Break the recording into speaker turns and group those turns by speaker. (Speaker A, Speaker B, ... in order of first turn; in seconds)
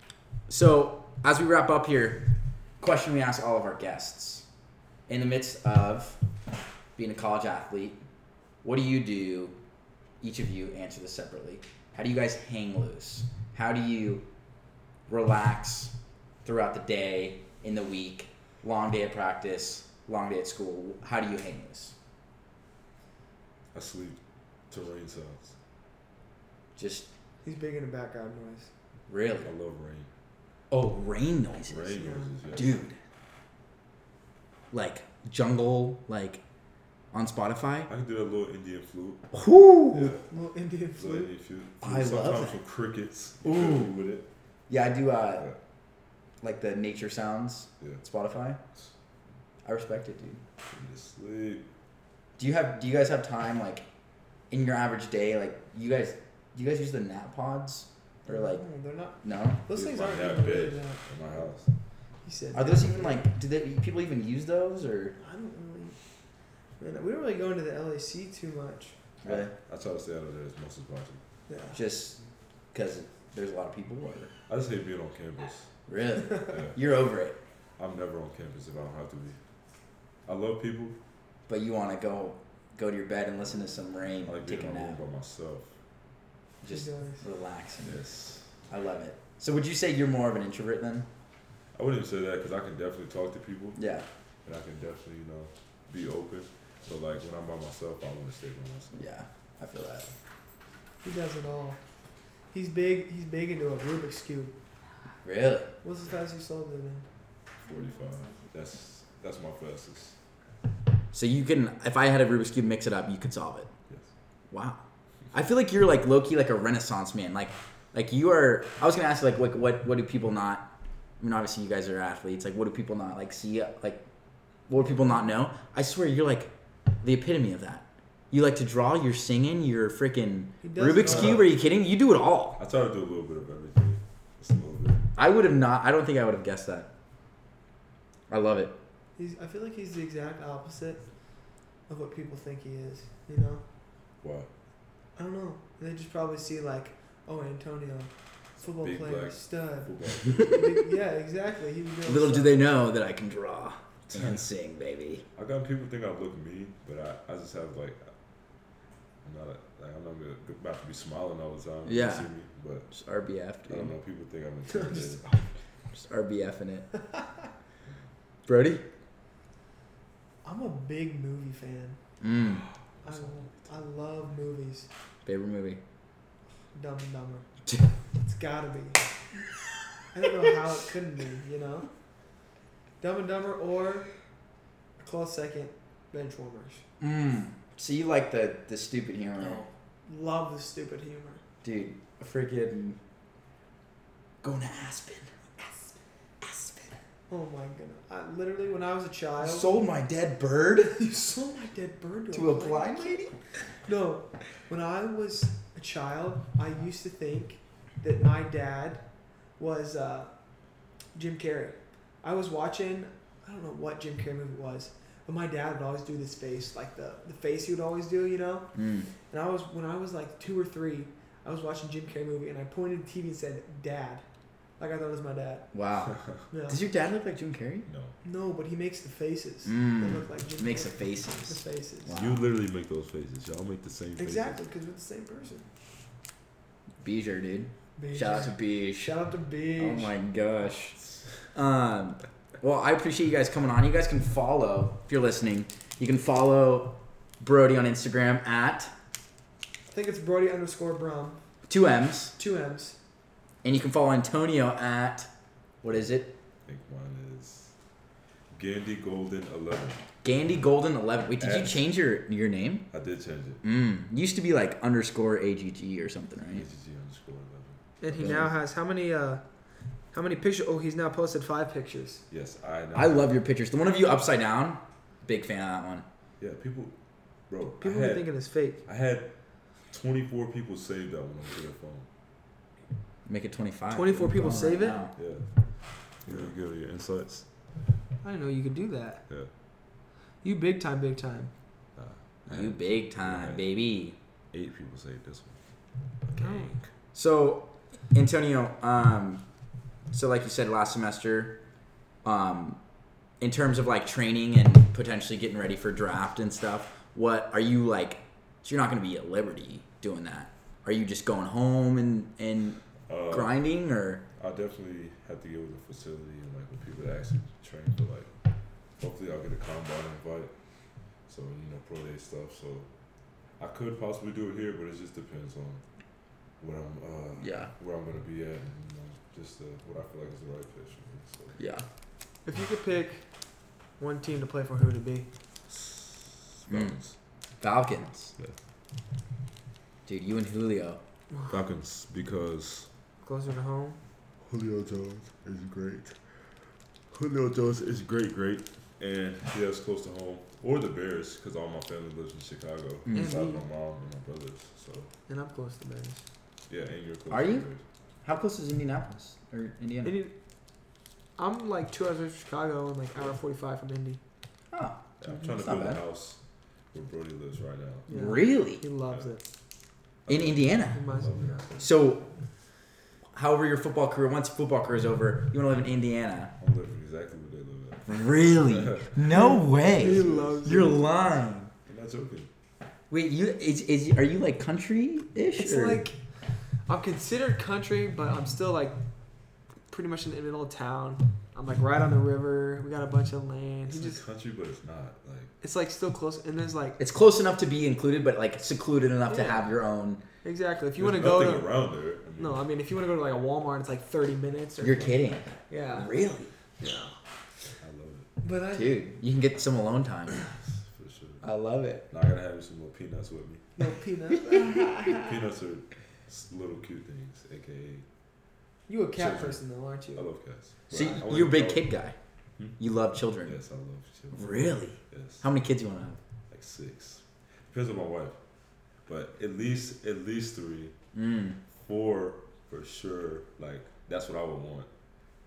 Speaker A: 0.5-4.5, 5.1-6.2, 7.0-8.0, 8.6-9.6, 10.2-14.2, 15.1-21.9, 26.8-27.1, 29.1-29.5, 30.7-31.9, 32.5-33.0, 34.7-36.4, 37.1-37.9, 39.3-40.1, 41.8-42.6, 43.4-44.0, 44.7-45.5, 46.4-48.6, 49.6-50.4, 52.4-53.8, 54.5-58.6, 59.2-59.6, 62.5-65.2, 69.2-69.5, 71.7-72.2, 72.7-74.3, 75.9-77.4, 81.5-85.0, 86.6-88.0, 88.7-91.1, 93.8-94.0, 98.9-100.1, 105.2-105.7, 111.1-113.7, 114.5-114.8, 115.3-120.7, 121.2-124.0, 124.7-132.6, 135.2-136.9, 138.3-138.7, 152.0-155.2, 161.8-162.3, 162.9-163.9, 165.9-166.9, 168.4-168.8, 172.2-172.7, 175.2-175.8, 187.0-189.6, 191.6-193.0, 194.4-197.0, 199.4-201.0, 202.3-203.3, 218.7-219.1, 225.7-227.9, 229.6-232.4, 237.0-239.1, 239.8-241.0, 241.5-248.9, 251.7-252.4, 253.6-255.3, 255.8-256.3, 260.2-262.9, 263.6-266.6, 268.2-268.5, 272.9-276.0, 283.2-285.1, 292.5-294.1, 297.1-299.4, 300.1-301.6, 302.2-302.8, 303.4-314.2, 327.4-327.7, 331.6-331.8, 336.7-337.0, 337.6-338.4, 340.1-341.0, 353.0-353.4, 357.3-357.6, 358.2-360.2, 364.7-366.0, 368.1-368.8, 370.3-371.0, 371.8-372.3, 373.3-376.5, 378.1-381.7, 383.1-386.0, 397.0-400.2, 404.8-406.5, 408.7-410.4, 411.4-412.1, 414.3-415.2, 420.9-422.1, 422.8-423.6, 424.3-426.2, 431.1-431.6
Speaker B: 23.7-24.2, 24.7-25.5, 29.4-30.1, 31.6-32.8, 37.9-39.3, 39.9-40.2, 40.9-44.3, 50.7-51.6, 59.7-61.7, 69.2-71.2, 74.5-75.7, 76.3-76.8, 77.8-79.4, 80.2-81.0, 84.2-85.7, 87.8-88.5, 91.7-93.8, 94.4-99.0, 107.6-110.2, 131.0-131.5, 132.6-135.0, 144.2-144.5, 148.6-150.8, 154.1-154.4, 155.3-158.1, 159.2-162.9, 163.7-165.5, 173.0-173.7, 226.1-226.4, 227.8-228.2, 232.1-234.6, 256.6-257.7, 258.5-260.0, 261.4-261.9, 262.9-263.6, 266.5-268.5, 272.3-273.4, 276.4-276.9, 277.5-278.3, 278.8-279.3, 279.9-282.1, 285.1-285.5, 286.1-287.4, 291.9-293.6, 294.5-295.6, 296.3-296.9, 313.1-313.6, 314.4-318.3, 319.0-320.5, 321.3-322.9, 323.6-325.8, 326.6-331.6, 335.7-337.1, 341.5-342.9, 344.4-346.2, 347.1-355.1, 356.7-357.8, 365.2-366.4, 366.9-368.1, 370.2-371.9, 376.6-381.0, 381.9-382.5, 393.9-395.5, 401.0-402.6, 407.8-408.3, 410.3-411.4, 412.1-413.6, 415.1-418.1, 419.1-419.6, 420.1-421.9, 423.4-425.4, 426.5-428.4, 429.1-430.9, 431.7-434.9
Speaker C: 27.4-28.7, 31.9-32.4, 40.3-41.3, 58.3-61.1, 62.2-63.3, 65.2-66.0, 66.8-69.0, 71.5-71.8, 86.7-87.2, 101.0-101.8, 102.5-104.5, 105.8-107.0, 130.6-131.5, 139.2-141.0, 141.9-143.6, 145.2-152.7, 164.7-165.2, 170.4-172.0, 173.0-174.9, 176.7-177.4, 178.1-179.0, 180.1-181.9, 183.0-184.1, 185.0-186.8, 189.4-191.4, 197.3-199.8, 201.0-203.2, 203.8-209.0, 209.6-210.3, 211.1-218.7, 219.3-224.2, 224.8-225.7, 226.5-226.8, 228.2-232.2, 234.2-235.7, 238.0-240.1, 249.9-251.4, 252.3-253.0, 268.0-269.4, 270.1-272.2, 277.8-278.8, 283.9-285.0, 288.2-289.2, 290.4-291.5, 296.4-296.8, 332.4-333.2, 334.0-335.3, 343.2-344.0, 353.1-353.6, 355.3-356.2, 360.0-360.3, 361.4-364.2, 368.1-369.4, 370.9-371.5, 379.3-381.0, 385.6-386.1, 386.9-389.0, 389.9-394.2, 395.6-397.0, 399.3-399.7, 400.4-401.7, 402.4-406.1, 406.8-407.2, 408.4-409.0, 413.8-415.2, 418.9-420.3